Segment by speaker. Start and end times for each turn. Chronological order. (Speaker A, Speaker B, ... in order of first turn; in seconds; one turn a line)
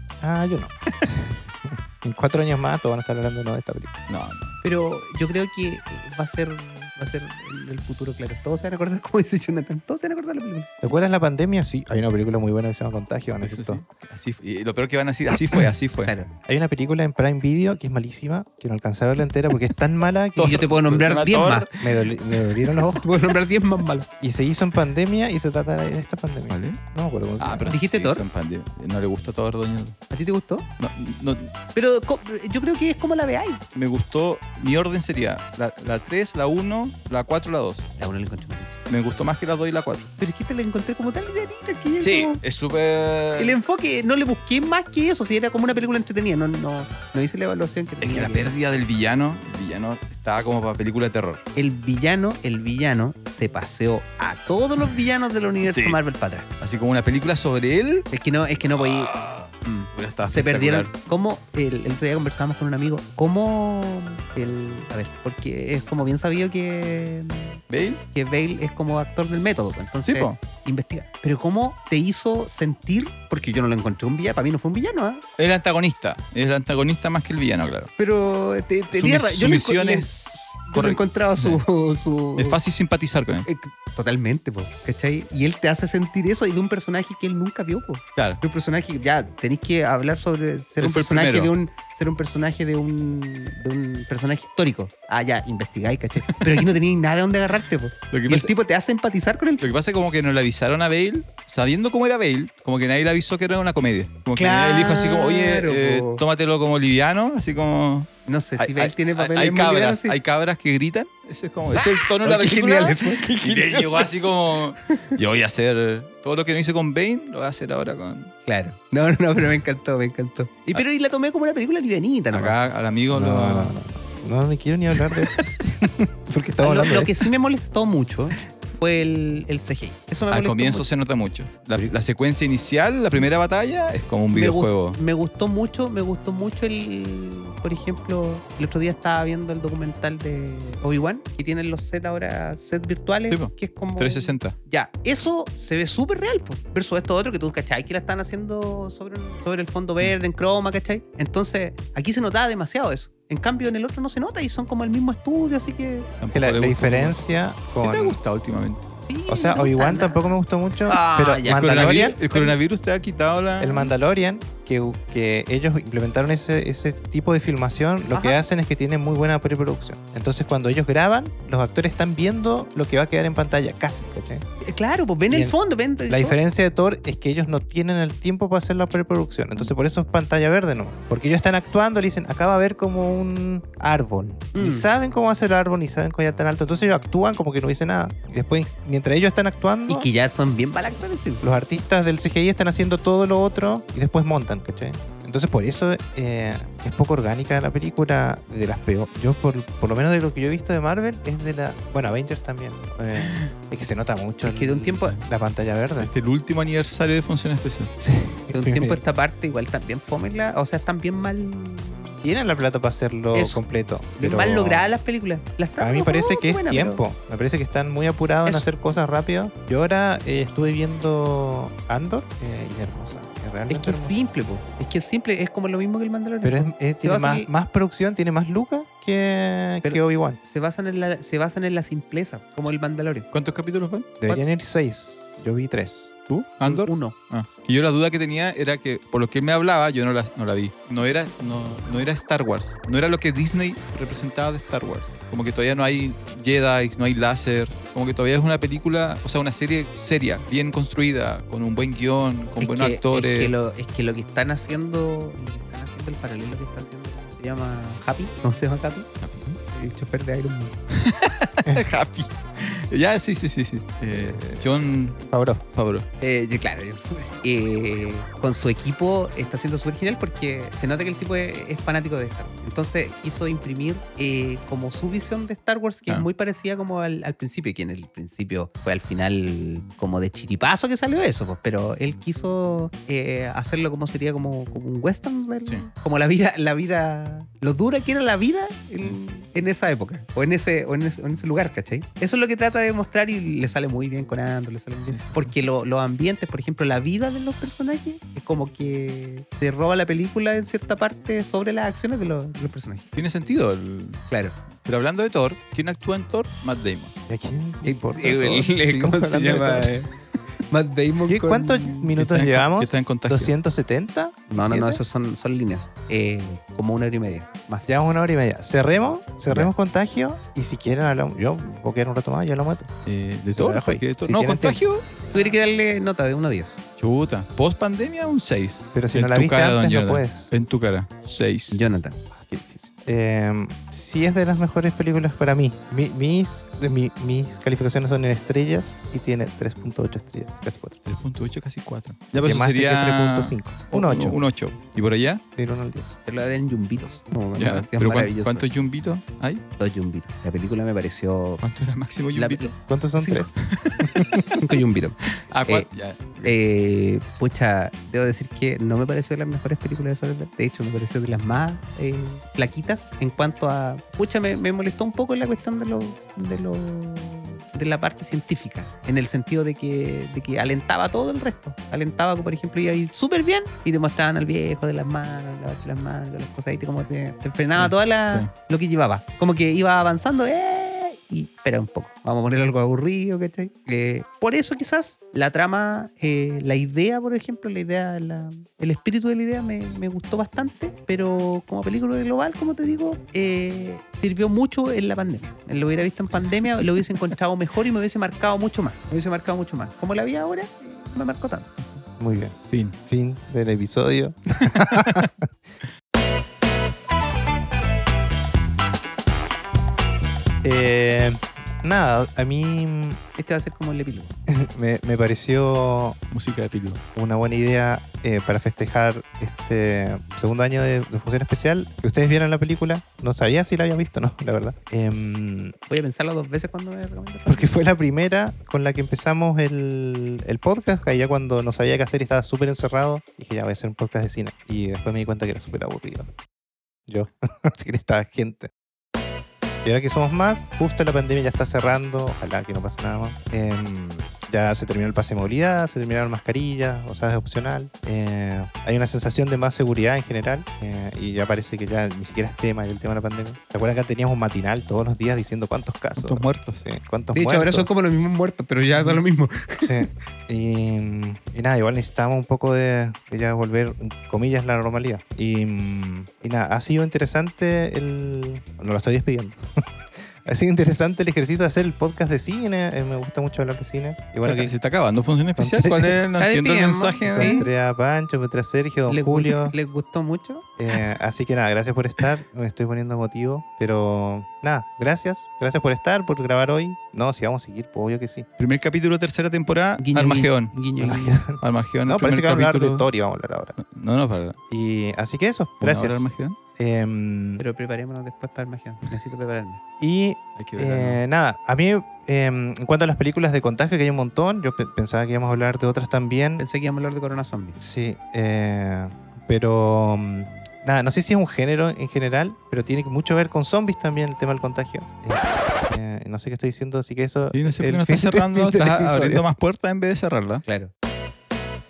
Speaker A: 0.2-4.0
Speaker B: 4.1-4.5
Speaker C: 4.6-10.7
Speaker A: 10.8-13.8
Speaker B: 13.4-16.1
Speaker C: 16.0-16.3
Speaker A: 16.4-20.6
Speaker B: 20.4-21.7
Speaker C: 20.4-21.8
Speaker A: 21.8-23.1
Speaker C: 22.3-24.1
Speaker A: 24.2-27.8
Speaker B: 26.5-26.8
Speaker B: 27.4-30.0
Speaker C: 27.6-28.2
Speaker C: 30.1-30.6
Speaker B: 30.8-31.5
Speaker C: 31.7-33.6
Speaker B: 33.7-37.9
Speaker C: 38.0-38.8
Speaker B: 38.9-40.1
Speaker C: 40.2-42.4
Speaker B: 42.0-43.6
Speaker C: 43.4-48.6
Speaker B: 48.0-51.4
Speaker C: 51.5-56.5
Speaker B: 55.6-56.0
Speaker B: 56.6-58.1
Speaker C: 58.1-59.1
Speaker B: 58.7-60.9
Speaker C: 59.6-67.6
Speaker B: 67.7-68.0
Speaker C: 68.1-75.2
Speaker B: 70.0-70.4
Speaker B: 75.4-77.9
Speaker C: 78.0-82.6
Speaker B: 78.9-81.6
Speaker B: 82.3-83.5
Speaker C: 83.4-99.7
Speaker B: 90.8-91.5
Speaker B: 96.4-96.8
Speaker B: 98.1-98.5
Speaker B: 99.6-118.3
Speaker C: 104.3-106.2
Speaker C: 108.2-110.2
Speaker C: 111.7-115.1
Speaker C: 118.5-122.5
Speaker B: 122.3-123.7
Speaker A: 123.1-127.2
Speaker C: 126.6-130.9
Speaker B: 130.3-135.0
Speaker C: 134.3-156.1
Speaker B: 143.3-144.6
Speaker B: 156.2-157.2
Speaker A: 156.3-158.2
Speaker B: 157.8-158.9
Speaker C: 159.0-160.3
Speaker A: 159.3-162.2
Speaker C: 160.9-162.6
Speaker B: 161.5-163.9
Speaker A: 163.6-174.4
Speaker C: 168.1-168.4
Speaker C: 174.6-176.4
Speaker A: 175.3-175.6
Speaker A: 176.1-190.1
Speaker C: 184.5-184.8
Speaker C: 189.9-191.4
Speaker A: 191.4-206.1
Speaker C: 204.4-205.2
Speaker B: 204.9-205.2
Speaker B: 206.0-207.9
Speaker A: 208.0-209.0
Speaker C: 208.5-212.2
Speaker A: 212.2-214.9
Speaker C: 213.3-213.6
Speaker C: 214.2-217.0
Speaker A: 215.8-224.2
Speaker C: 223.7-227.5
Speaker A: 226.4-230.4
Speaker C: 229.8-233.3
Speaker B: 233.3-234.1
Speaker A: 234.2-236.2
Speaker B: 236.3-253.5
Speaker C: 236.6-237.2
Speaker C: 252.6-259.1
Speaker B: 259.2-259.6
Speaker C: 259.7-260.8
Speaker B: 260.9-265.2
Speaker A: 264.1-265.6
Speaker B: 265.7-266.1
Speaker C: 266.2-303.1
Speaker B: 295.1-295.5
Speaker B: 303.1-304.2
Speaker C: 304.3-304.5
Speaker B: 304.8-307.1
Speaker A: 307.3-309.9
Speaker C: 307.8-310.1
Speaker C: 310.7-311.9
Speaker A: 311.3-315.0
Speaker B: 312.1-313.5
Speaker C: 314.5-317.9
Speaker A: 317.9-322.9
Speaker B: 323.1-325.1
Speaker A: 323.5-324.8
Speaker C: 325.2-326.8
Speaker B: 327.0-331.8
Speaker A: 328.9-330.5
Speaker C: 331.7-332.2
Speaker A: 332.3-341.0
Speaker B: 341.1-345.4
Speaker A: 342.4-344.4
Speaker A: 345.6-346.1
Speaker C: 346.2-348.6
Speaker B: 347.6-349.6
Speaker C: 349.8-351.6
Speaker B: 351.6-352.7
Speaker C: 352.3-353.5
Speaker A: 352.9-354.5
Speaker B: 353.6-354.3
Speaker C: 354.6-355.9
Speaker B: 355.5-356.5
Speaker C: 356.4-401.8
Speaker B: 377.8-378.5
Speaker A: 402.2-405.5
Speaker B: 404.7-405.3
Speaker A: 410.6-413.2
Speaker C: 413.4-414.3
Speaker A: 414.5-416.2
Speaker B: 416.3-417.0
Speaker A: 417.1-425.7
Speaker C: 425.9-427.7
Speaker A: 427.4-436.3
Speaker A: 437.1-438.7
Speaker A: 439.8-457.9
Speaker B: 456.1-456.8
Speaker C: 457.3-460.1
Speaker A: 459.8-469.8
Speaker A: 470.4-474.7
Speaker B: 474.4-477.6
Speaker A: 475.6-476.1
Speaker C: 476.4-477.7
Speaker A: 477.2-479.7
Speaker C: 479.1-480.6
Speaker A: 480.8-488.4
Speaker B: 488.6-490.7
Speaker C: 490.0-491.4
Speaker A: 491.0-493.8
Speaker B: 491.6-493.1
Speaker B: 493.8-494.6
Speaker A: 494.7-497.6
Speaker B: 495.8-496.6
Speaker C: 497.6-499.8
Speaker A: 500.0-506.6
Speaker B: 500.6-501.2
Speaker C: 506.6-507.8
Speaker A: 507.8-518.5
Speaker B: 517.5-520.6
Speaker C: 518.3-519.4
Speaker C: 520.6-520.9